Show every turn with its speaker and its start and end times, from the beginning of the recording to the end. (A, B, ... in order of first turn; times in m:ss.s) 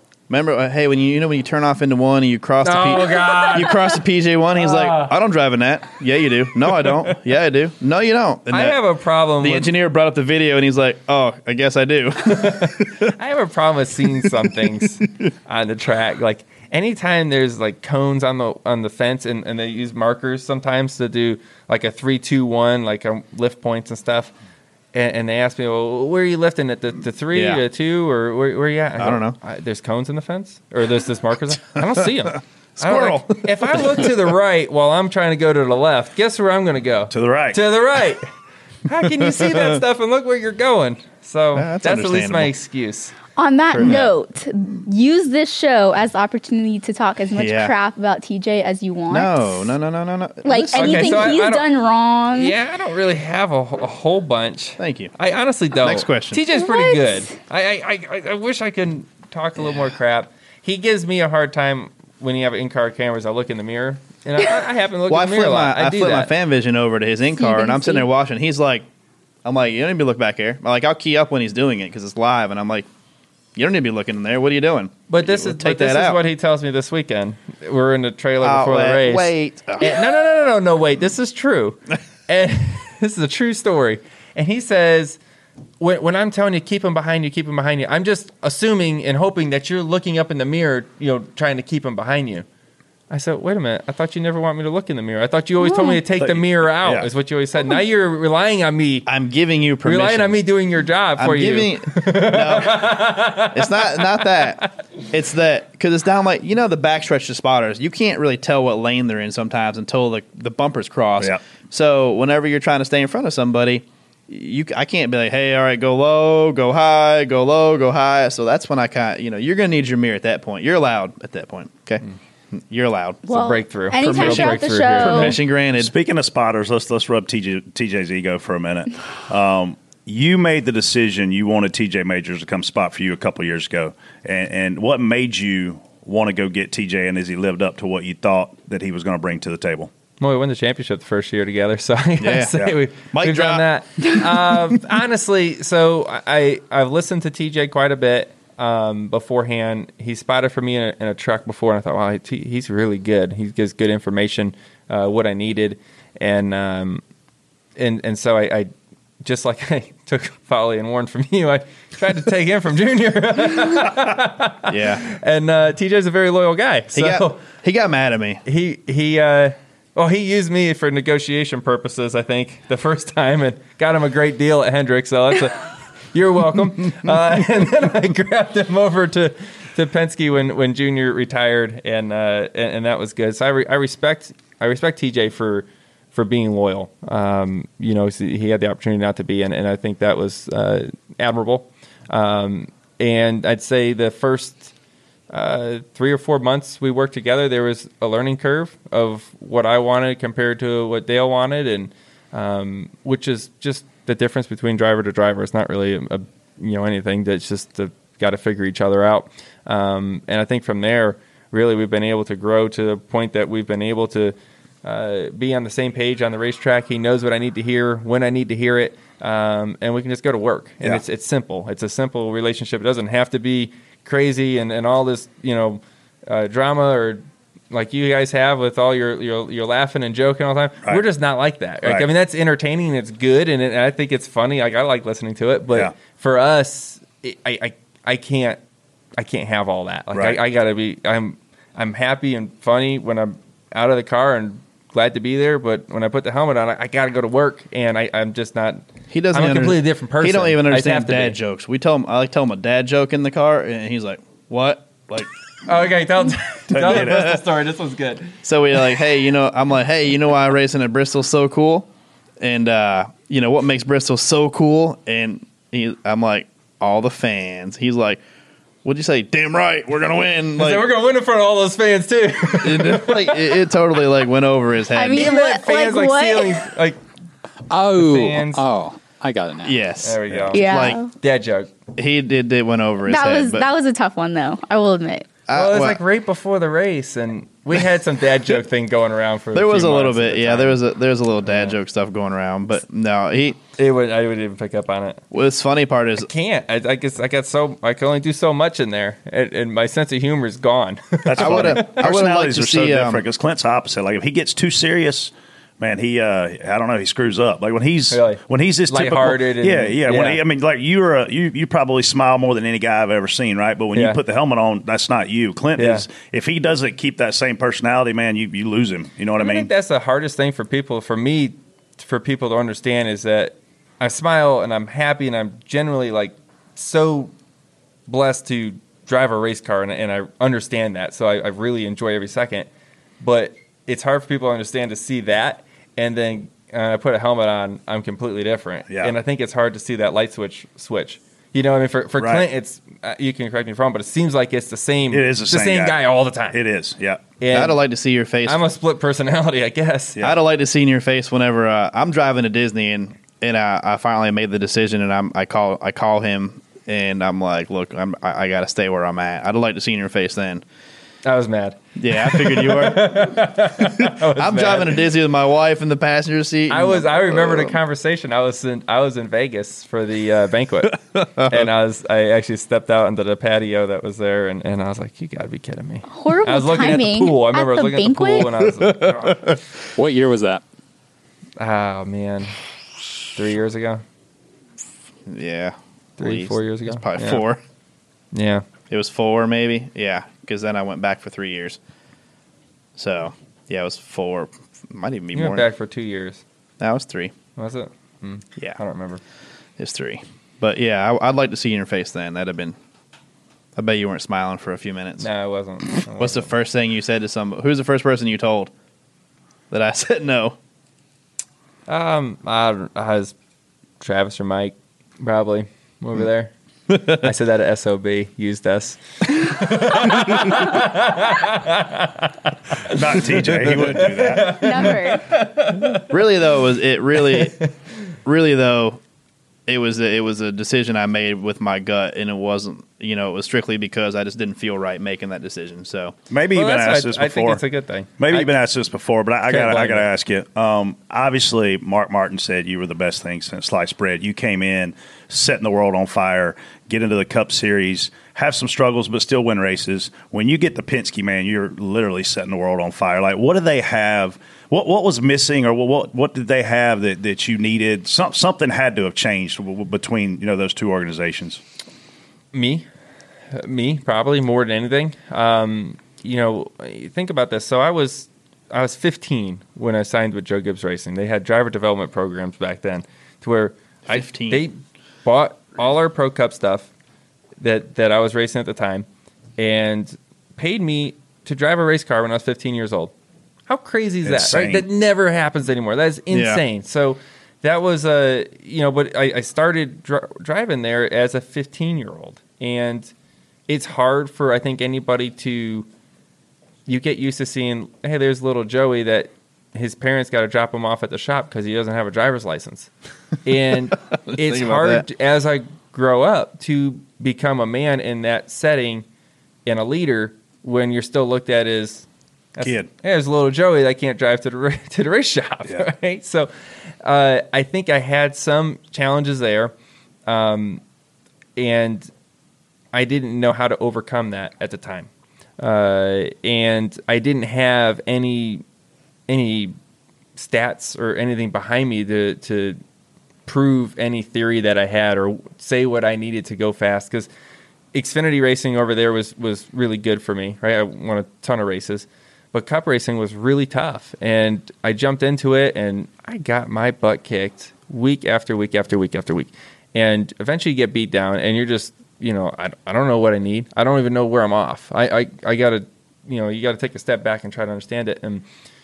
0:00.3-0:08.8 A
0:02.6-0:03.9 B
0:04.6-0:05.1 B
0:08.5-0:09.7 B
0:09.4-0:13.1 A
0:12.2-0:24.3 B
0:24.9-0:38.2 B
0:27.3-0:27.6 A
0:29.0-0:29.4 A
0:32.8-0:33.7 A
0:37.1-0:37.6 C
0:38.8-0:43.1 B
0:41.5-0:42.5 A
0:43.4-0:49.5 D
0:43.7-0:44.1 B
0:43.8-0:44.0 A
0:47.3-0:47.7 A
0:49.1-0:51.4 A
0:50.4-0:52.5 D
0:50.7-0:51.6 B
0:52.3-1:06.3 B
0:54.8-0:55.1 A
0:55.7-0:56.4 A
0:56.5-0:57.3 D
1:05.1-1:08.8 A
1:07.4-1:08.1 D
1:09.4-1:12.9 A
1:13.6-1:16.2 A
1:15.1-1:25.2 B
1:18.4-1:20.0 A
1:25.8-1:32.4 B
1:33.1-1:39.1 B
1:35.6-1:36.0 D
1:36.2-1:37.1 C
1:39.0-1:40.4 A
1:39.8-1:44.4 B
1:41.2-2:03.2 A
2:03.3-2:05.4 D
2:03.3-2:05.4 B
2:04.0-2:05.9 A
2:05.8-2:19.9 C
2:20.2-2:37.0 B
2:22.2-2:24.2 A
2:37.8-2:38.7 B
2:39.2-2:47.4 B
2:44.7-2:45.0 A
2:46.9-2:48.4 A
2:48.4-3:14.7 B
3:15.3-3:58.6 B
3:59.2-4:11.4 B
4:00.1-4:00.4 C
4:09.1-4:15.3 A
4:15.6-4:18.3 B
4:16.7-4:17.4 C
4:16.8-4:17.4 A
4:18.4-4:21.9 A
4:22.4-4:28.2 A
4:28.8-4:30.9 A
4:30.6-4:33.5 B
4:32.5-4:35.3 A
4:34.9-4:36.7 D
4:35.1-4:37.0 B
4:37.7-4:39.8 E
4:37.9-4:38.6 B
4:39.6-4:41.0 A
4:40.0-4:41.7 B
4:40.5-4:41.1 D
4:42.0-4:43.6 A
4:43.0-4:45.3 D
4:45.5-4:46.0 A
4:45.5-4:50.8 B
4:49.5-4:53.6 A
4:51.5-4:51.7 B
4:53.8-4:55.2 B
4:55.3-4:56.3 A
4:56.2-5:02.0 B
5:01.2-5:19.7 C
5:01.4-5:03.2 A
5:08.1-5:10.4 B
5:13.9-5:14.2 B
5:15.8-5:16.1 B
5:19.4-5:27.3 B
5:28.1-5:32.7 B
5:33.2-5:46.6 B
5:38.9-5:39.1 C
5:42.2-5:42.4 C
5:45.1-5:46.0 C
5:46.5-5:47.2 C
5:47.4-5:47.8 B
5:47.5-5:48.6 A
5:48.4-5:50.2 B
5:50.2-6:00.6 A
6:01.2-6:05.0 B
6:02.0-6:07.8 A
6:06.7-6:19.6 B
6:16.1-6:18.5 D
6:18.8-6:19.3 A
6:20.0-6:20.6 E
6:21.6-6:22.5 B
6:23.3-6:24.0 B
6:25.3-6:27.6 A
6:26.2-6:27.4 B
6:28.3-6:28.6 B
6:28.9-6:31.8 A
6:33.0-6:35.7 A
6:35.3-6:36.4 B
6:36.8-6:37.3 A
6:37.6-6:39.2 B
6:39.8-6:42.8 A
6:43.8-6:45.3 A
6:45.2-6:46.5 B
6:46.1-6:48.7 A
6:49.7-6:50.6 A
6:51.9-6:53.3 B
6:54.0-6:56.5 B
6:57.0-7:03.0 B
7:02.9-7:04.9 C
7:03.9-7:06.1 B
7:04.5-7:05.2 D
7:06.0-7:07.6 A
7:07.3-7:07.7 B
7:08.2-7:09.0 A
7:09.7-7:16.1 A
7:16.3-7:17.6 C
7:16.5-7:18.5 B
7:18.2-7:41.6 C
7:19.5-7:20.1 B
7:42.5-7:42.8 B
7:43.5-7:56.9 B
7:54.1-7:54.6 A
7:57.6-7:59.0 B
7:59.6-8:03.1 B
8:03.7-8:13.1 B
8:04.2-8:04.8 C
8:06.3-8:06.6 A
8:13.7-8:15.9 B
8:16.8-8:22.9 B
8:23.4-8:29.0 B
8:24.2-8:25.0 A
8:29.6-8:36.5 B
8:32.6-8:32.9 C
8:37.0-8:39.7 B
8:40.3-8:40.8 B
8:41.6-8:42.1 B
8:42.9-8:48.6 B
8:49.3-8:49.7 B
8:50.4-8:52.8 B
8:53.4-8:57.3 B
8:57.9-9:18.4 B